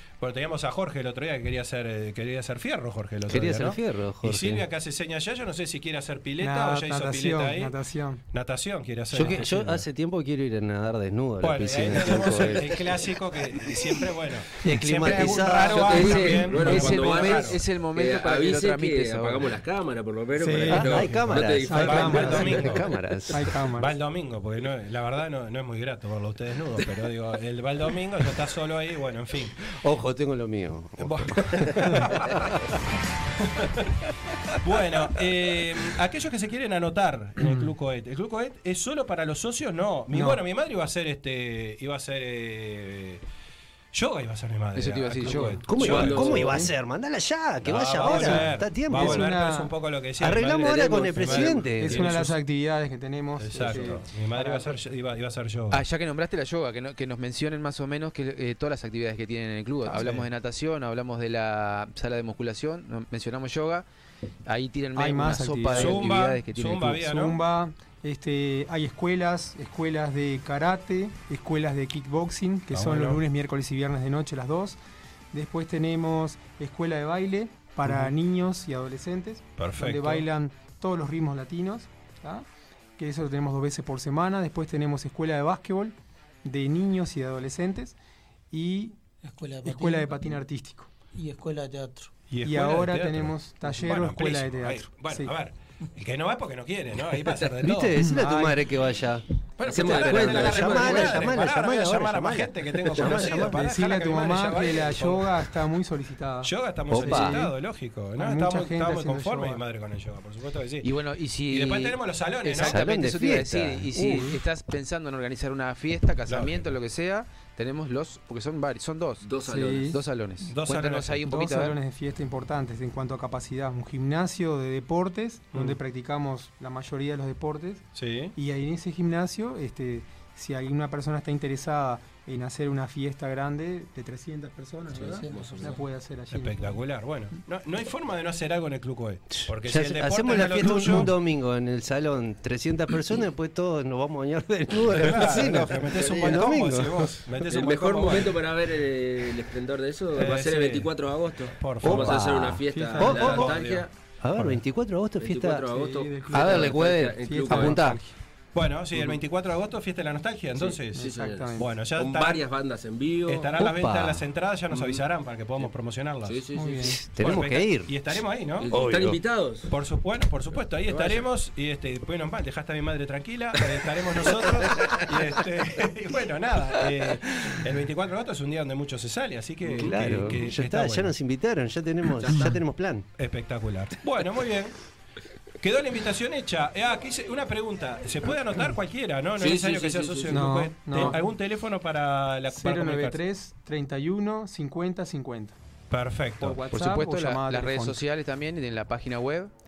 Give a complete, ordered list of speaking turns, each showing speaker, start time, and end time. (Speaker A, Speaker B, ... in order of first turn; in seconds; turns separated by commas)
Speaker A: 0.2-7.8, Speaker B: 3.3-4.7, Speaker C: 6.4-8.2, Speaker A: 8.3-9.8, Speaker B: 9.1-13.0, Speaker A: 11.4-17.6, Speaker B: 13.7-14.0, Speaker B: 14.6-16.4, Speaker D: 15.7-22.9, Speaker E: 16.5-19.5, Speaker C: 20.4-21.1, Speaker B: 20.7-23.5, Speaker A: 20.9-22.9, Speaker C: 21.6-22.8, Speaker C: 23.3-23.9, Speaker A: 23.8-29.7, Speaker B: 29.7-32.4, Speaker A: 31.0-32.6, Speaker A: 33.4-33.9, Speaker A: 34.6-43.2, Speaker C: 40.1-40.4, Speaker A: 43.9-46.6, Speaker E: 44.7-45.6, Speaker C: 45.3-45.6, Speaker B: 45.7-49.3, Speaker D: 45.8-46.7, Speaker A: 47.6-52.4, Speaker C: 48.0-49.7, Speaker B: 50.2-52.2, Speaker C: 51.2-54.8, Speaker A: 53.4-55.8, Speaker E: 55.7-63.9, Speaker A: 59.9-60.2, Speaker E: 64.5-67.0, Speaker C: 65.0-66.1, Speaker A: 65.7-67.4, Speaker C: 66.9-74.8, Speaker A: 72.7-73.2, Speaker C: 75.3-82.5, Speaker A: 77.8-78.1, Speaker A: 79.6-80.2, Speaker C: 83.0-88.0, Speaker C: 88.5-89.0, Speaker F: 89.2-90.4, Speaker C: 89.6-90.9, Speaker F: 91.1-92.1, Speaker A: 92.3-98.0, Speaker C: 92.4-95.3, Speaker B: 97.6-103.6, Speaker C: 97.9-98.7, Speaker A: 99.6-105.3, Speaker D: 99.6-101.3, Speaker C: 103.1-107.5, Speaker A: 106.4-110.9, Speaker B: 106.9-107.4, Speaker C: 108.2-109.6, Speaker E: 110.8-119.2, Speaker A: 111.5-112.8, Speaker B: 112.6-114.4, Speaker A: 116.3-116.7, Speaker D: 119.2-120.0, Speaker C: 119.5-120.0, Speaker E: 119.9-121.8, Speaker A: 120.4-121.2, Speaker C: 121.2-136.8, Speaker A: 125.5-125.8, Speaker A: 128.0-128.3, Speaker D: 134.9-135.8, Speaker F: 135.0-135.6, Speaker A: 136.3-141.1, Speaker B: 139.4-147.3, Speaker A: 144.8-148.4, Speaker D: 146.0-146.5, Speaker D: 147.4-153.9, Speaker A: 150.1-150.9, Speaker A: 151.6-152.2, Speaker B: 151.8-153.5, Speaker C: 152.7-153.7, Speaker A: 153.0-153.8, Speaker B: 154.2-155.7, Speaker A: 154.3-154.6, Speaker D: 155.2-158.0, Speaker C: 155.7-158.1, Speaker B: 156.3-158.0, Speaker A: 158.5-162.4, Speaker D: 160.5-163.5, Speaker C: 160.9-161.7, Speaker A: 163.3-166.4, Speaker B: 163.6-164.2, Speaker D: 164.7-165.0, Speaker D: 166.2-167.0, Speaker C: 166.5-167.0, Speaker B: 166.8-167.9, Speaker A: 167.2-168.7, Speaker D: 168.6-169.7, Speaker B: 168.7-169.2, Speaker A: 169.7-181.1, Speaker D: 170.9-171.3, Speaker B: 179.8-183.1, Speaker A: 183.2-184.8, Speaker A: 185.6-193.2, Speaker D: 189.4-190.5, Speaker C: 190.3-191.2, Speaker C: 192.5-195.6, Speaker A: 195.9-196.7, Speaker C: 196.4-198.0, Speaker E: 196.7-199.5